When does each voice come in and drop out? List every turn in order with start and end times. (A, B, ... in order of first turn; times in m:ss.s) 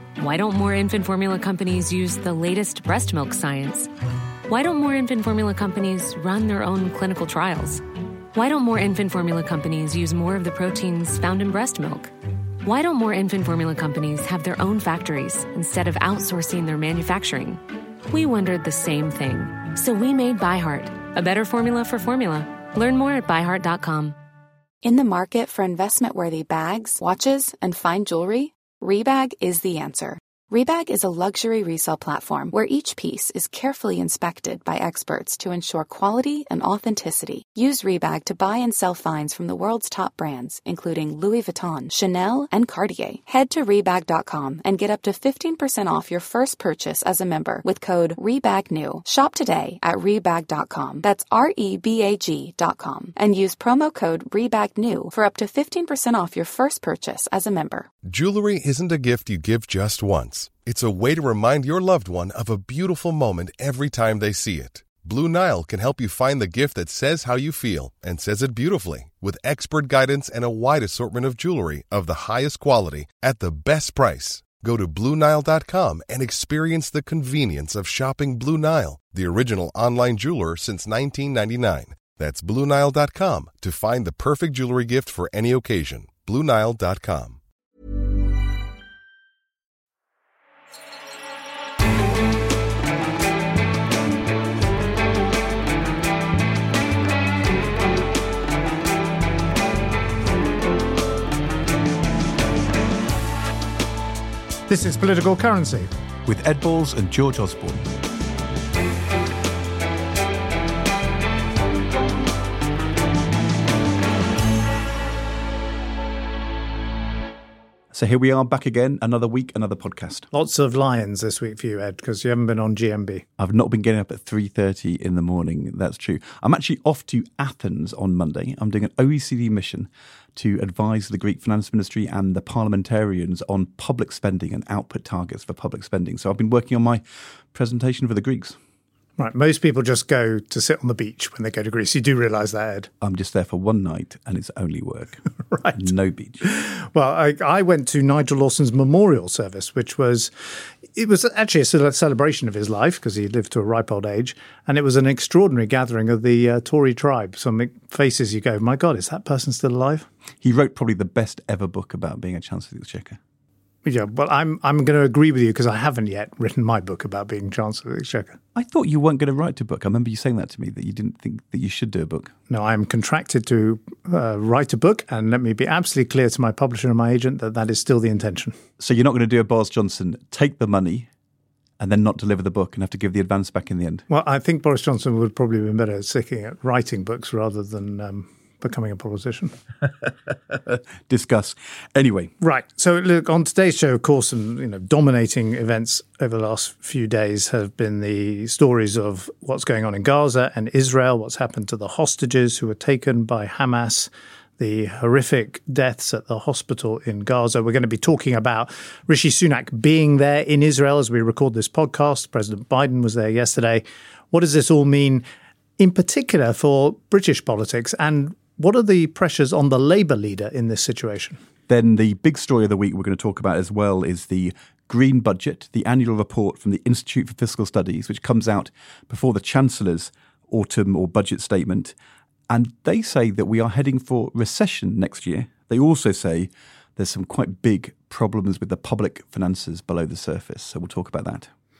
0:00.2-0:03.9 A
0:04.5-0:07.8 A
0:08.3-0:12.1 A
0:12.6-0:24.2 A
0:24.8-0:57.9 B
0:58.1-1:27.4 C
1:44.7-1:45.9 D
1:46.2-1:47.9 E
1:57.9-2:00.3 E
2:00.3-2:03.2 D
2:03.4-2:18.6 E
2:19.2-2:22.9 D
2:23.0-2:25.2 E
2:25.5-2:25.8 D
2:25.7-2:26.4 E
2:26.4-2:40.1 D
2:40.4-2:43.2 E
2:43.9-2:48.4 D
2:48.6-2:52.3 E
2:52.5-2:58.6 D
2:58.8-3:01.1 E
3:01.8-3:04.1 E
3:04.1-3:09.5 D
3:10.5-3:12.3 E
3:12.4-3:35.2 D
3:35.8-3:41.4 D
3:41.7-3:52.0 E
3:52.5-4:01.5 E